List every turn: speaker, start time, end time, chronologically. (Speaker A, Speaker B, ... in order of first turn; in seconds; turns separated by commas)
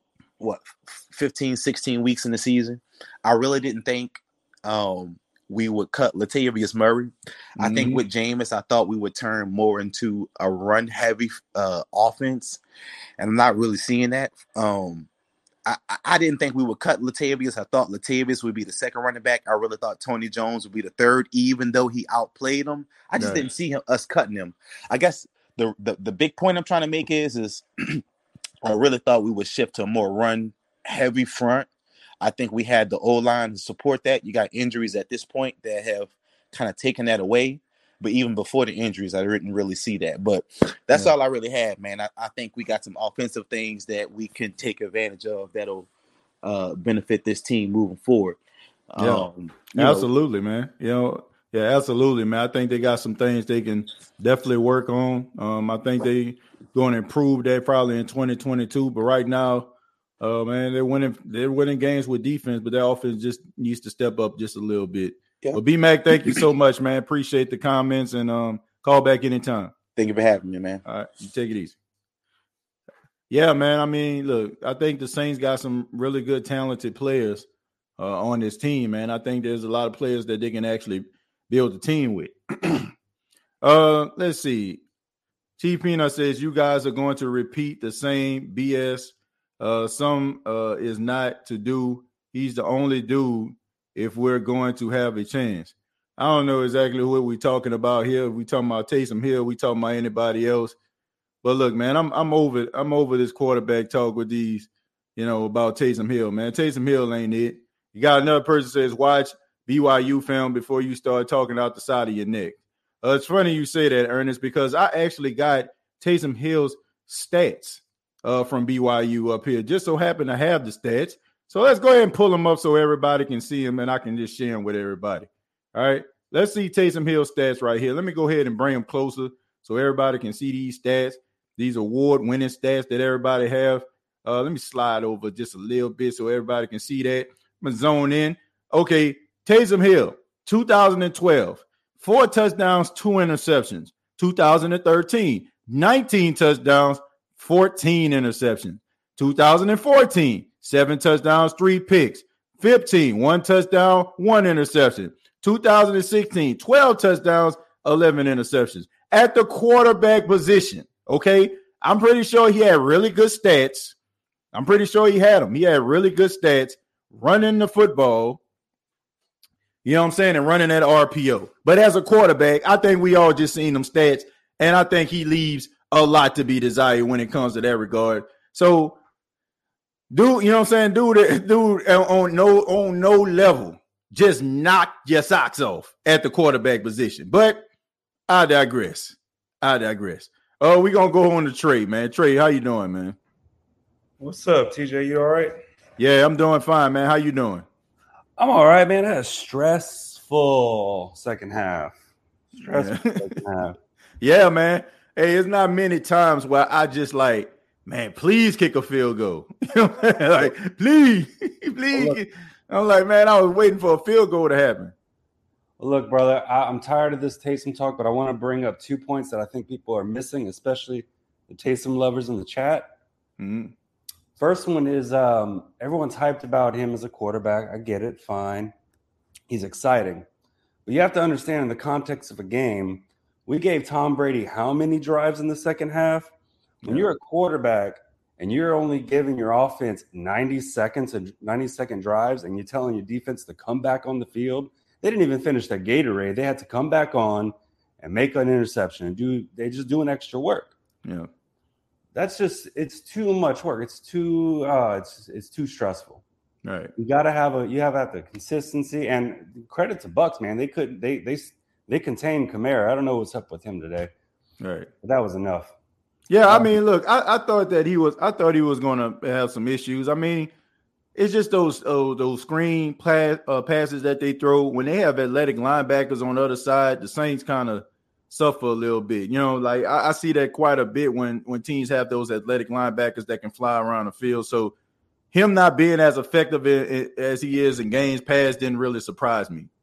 Speaker A: 0.4-12.6, Speaker B: 7.6-8.0, Speaker A: 13.2-15.1, Speaker A: 15.7-28.0, Speaker B: 23.2-23.5, Speaker A: 28.6-31.7, Speaker A: 32.2-45.9, Speaker A: 46.4-48.4, Speaker A: 48.9-50.1, Speaker B: 49.0-69.7, Speaker A: 66.1-66.4, Speaker A: 70.0-70.8, Speaker B: 70.8-71.8, Speaker B: 73.3-77.5, Speaker B: 78.0-82.9, Speaker B: 83.6-84.8, Speaker B: 85.6-100.7, Speaker B: 101.4-163.9, Speaker B: 164.5-168.4, Speaker B: 169.8-179.0, Speaker B: 180.1-187.6, Speaker B: 188.3-193.2, Speaker C: 194.2-195.6, Speaker B: 196.0-197.7, Speaker C: 198.4-201.9, Speaker C: 202.6-203.8, Speaker B: 202.6-203.4, Speaker B: 204.2-214.9, Speaker C: 211.9-212.2, Speaker C: 215.8-222.9, Speaker B: 223.4-223.7, Speaker C: 224.4-228.7, Speaker C: 229.5-230.3, Speaker C: 230.8-236.3, Speaker B: 236.8-237.1, Speaker C: 236.8-250.7, Speaker C: 252.1-256.2, Speaker B: 256.6-256.9, Speaker C: 257.0-264.1, Speaker B: 264.6-264.9, Speaker C: 265.0-265.7, Speaker B: 266.3-270.5, Speaker C: 266.5-266.7, Speaker B: 271.1-284.7, Speaker B: 285.3-289.7